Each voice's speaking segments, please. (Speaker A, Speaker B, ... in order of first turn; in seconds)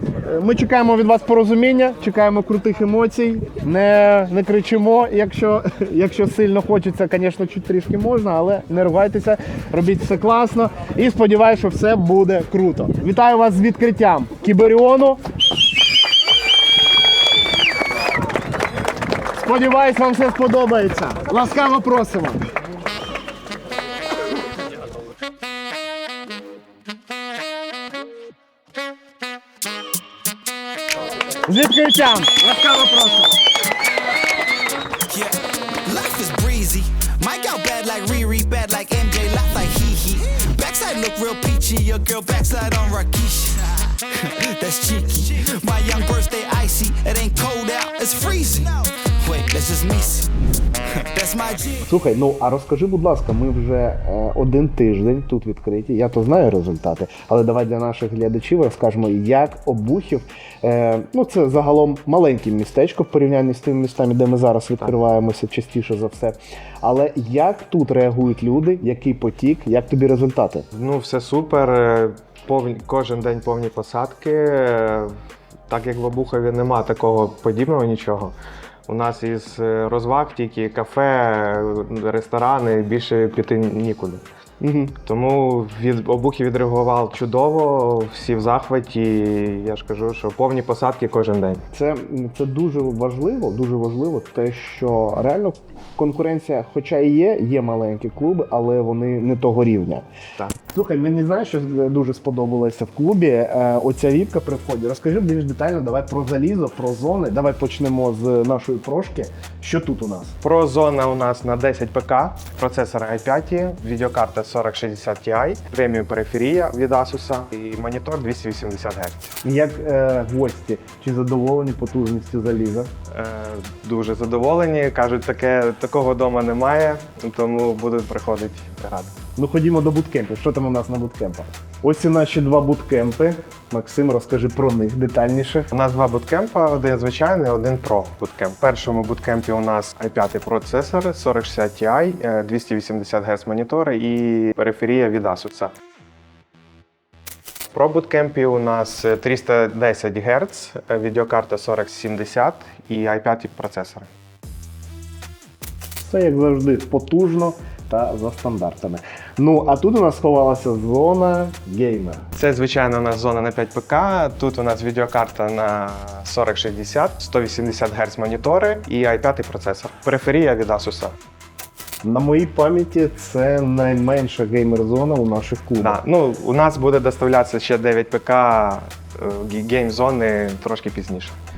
Speaker A: 0.2-15.2, 19.4-22.4, 31.4-33.3, 51.9-70.7, 84.6-84.9, 91.7-100.0, 100.7-110.3, 119.4-122.9, 129.4-135.7, 156.1-162.2, 172.0-176.0
Speaker B: 35.1-50.3, 50.9-51.9
Speaker C: 70.7-75.1, 75.7-78.3, 78.9-84.2, 85.0-91.6, 110.4-119.3, 123.1-129.1, 135.7-145.7, 147.7-154.1, 162.3-171.2, 175.8-181.3